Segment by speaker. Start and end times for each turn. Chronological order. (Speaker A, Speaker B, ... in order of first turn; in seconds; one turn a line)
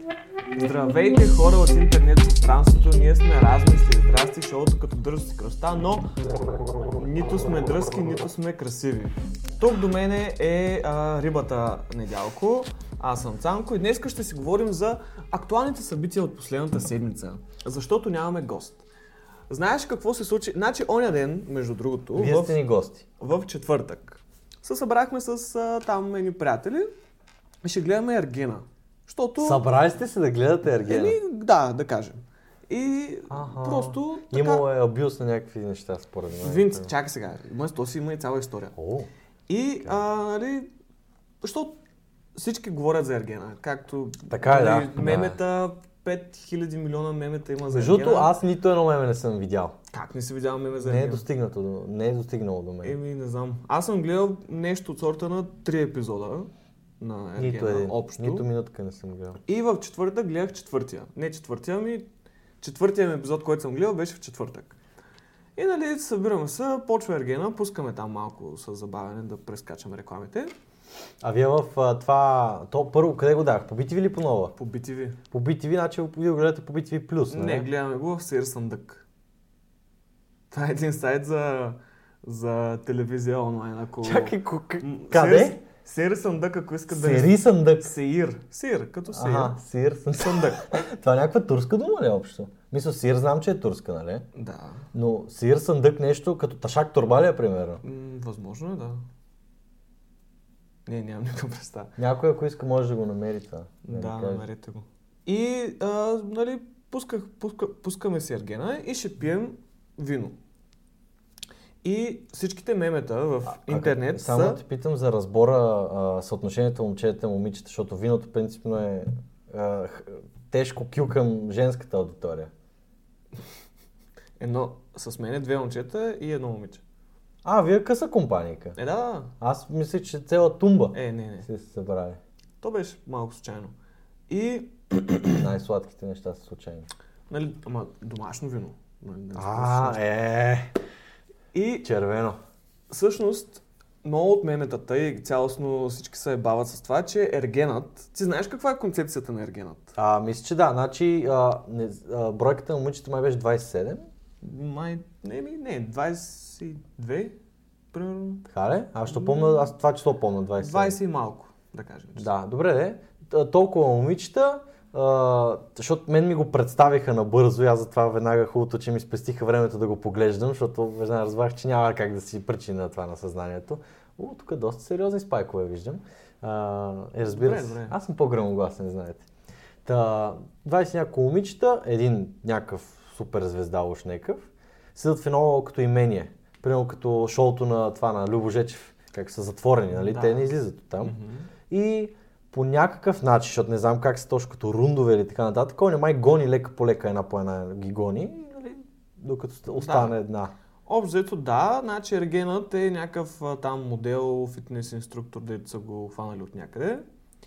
Speaker A: 0.6-6.1
Speaker A: 6.9-18.9
Speaker A: 19.5-22.6
Speaker B: 22.1-23.1
Speaker A: 23.2-26.9
Speaker A: 27.6-29.6
Speaker B: 29.4-31.2
Speaker A: 30.9-34.6
Speaker B: 33.3-36.9
Speaker A: 36.4-38.8
Speaker B: 38.8-39.1
Speaker A: 39.5-40.7
Speaker A: 41.4-41.8
Speaker A: 42.4-48.3
Speaker B: 44.3-45.4
Speaker B: 47.7-49.8
Speaker A: 49.9-51.2
Speaker B: 50.8-53.0
Speaker A: 52.8-58.5
Speaker B: 57.4-59.4
Speaker A: 59.5-62.1
Speaker A: 62.6-64.8
Speaker A: 65.6-70.5
Speaker B: 71.2-74.5
Speaker A: 74.6-75.2
Speaker B: 75.3-77.7
Speaker A: 77.3-79.0
Speaker A: 80.5-89.6
Speaker B: 84.0-85.6
Speaker B: 86.9-87.9
Speaker B: 89.1-94.3
Speaker A: 90.2-90.8
Speaker A: 94.3-94.9
Speaker B: 94.9-97.8
Speaker A: 97.8-99.0
Speaker A: 100.9-102.0
Speaker B: 102.0-104.4
Speaker A: 103.9-110.3
Speaker A: 111.8-114.6
Speaker B: 113.5-122.5
Speaker A: 124.4-126.8
Speaker B: 127.4-128.8
Speaker A: 128.8-129.3
Speaker B: 129.4-132.2
Speaker A: 130.9-131.5
Speaker A: 132.6-133.7
Speaker A: 134.3-135.4
Speaker B: 135.3-136.9
Speaker A: 137.3-140.0
Speaker B: 139.4-140.7
Speaker A: 141.5-141.9
Speaker B: 141.8-142.4
Speaker A: 142.9-149.9
Speaker B: 150.0-154.0
Speaker A: 154.4-157.4
Speaker A: 157.9-158.5
Speaker B: 158.5-161.0
Speaker A: 159.1-159.7
Speaker A: 160.6-162.3
Speaker B: 162.2-179.2
Speaker A: 177.2-178.0
Speaker B: 179.8-191.2
Speaker A: 189.9-191.5
Speaker B: 191.7-200.5
Speaker A: 199.8-200.2
Speaker A: 200.9-207.0